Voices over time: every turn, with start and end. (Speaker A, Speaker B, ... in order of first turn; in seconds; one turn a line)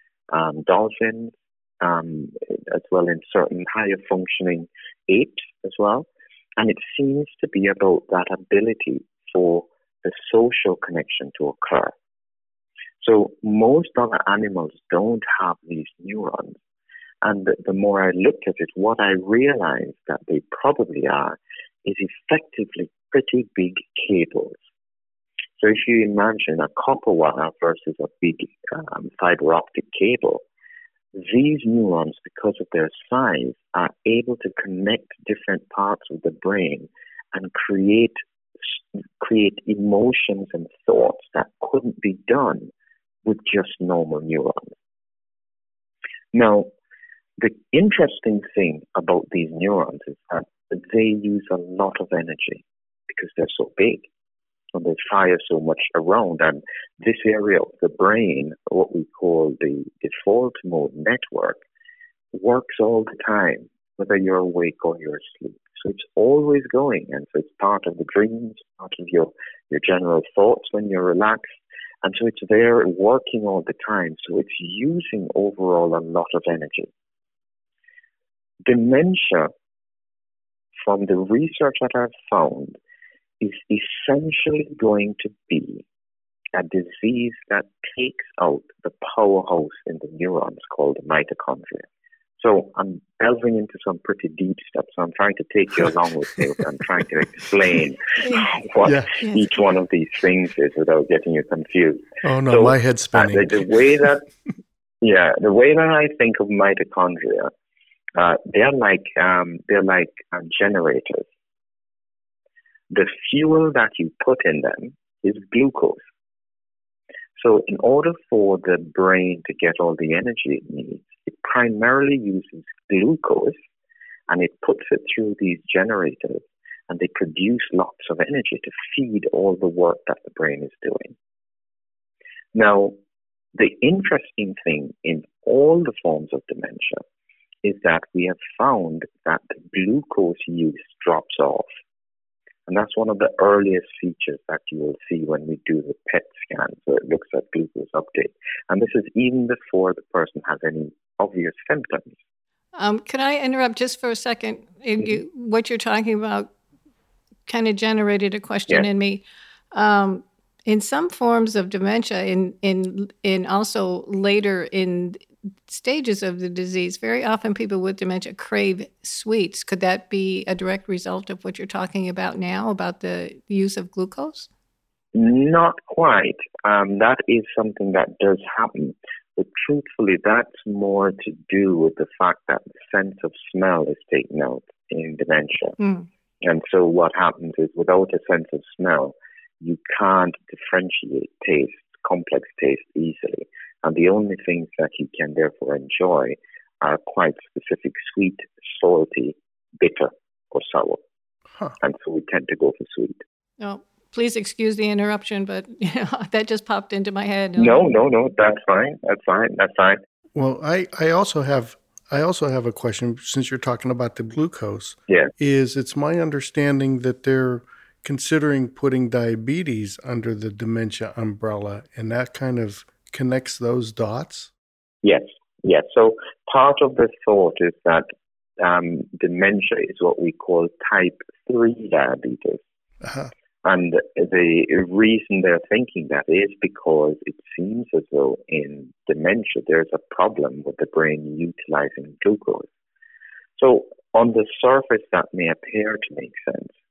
Speaker A: 0.3-6.1
Speaker A: 6.6-11.9
Speaker A: 13.0-16.6
Speaker A: 17.2-24.6
Speaker A: 25.6-30.4
Speaker A: 31.1-42.7
Speaker A: 43.2-44.8
Speaker A: 46.3-46.7
Speaker A: 47.4-54.1
Speaker A: 54.8-61.6
Speaker A: 62.3-71.4
Speaker A: 72.0-76.9
Speaker A: 78.7-79.5
Speaker A: 80.8-82.8
Speaker A: 83.4-85.8
Speaker A: 86.5-91.9
Speaker A: 92.4-104.2
Speaker B: 98.2-99.5
Speaker C: 98.8-99.2
Speaker C: 102.2-103.7
Speaker A: 105.0-107.5
Speaker A: 108.2-111.3
Speaker A: 112.9-116.0
Speaker A: 117.4-123.6
Speaker A: 124.3-131.2
Speaker A: 132.5-132.9
Speaker A: 133.6-137.0
Speaker A: 137.6-141.7
Speaker A: 142.7-152.2
Speaker B: 152.8-156.5
Speaker B: 157.5-174.5
Speaker A: 175.2-185.8
Speaker B: 185.8-186.1
Speaker A: 186.4-201.0
Speaker A: 201.8-203.2
Speaker B: 203.6-207.9
Speaker A: 207.6-210.0
Speaker C: 210.3-224.5
Speaker A: 225.0-228.1
Speaker A: 228.6-232.6
Speaker C: 233.0-233.3
Speaker A: 233.7-242.7
Speaker A: 243.6-246.7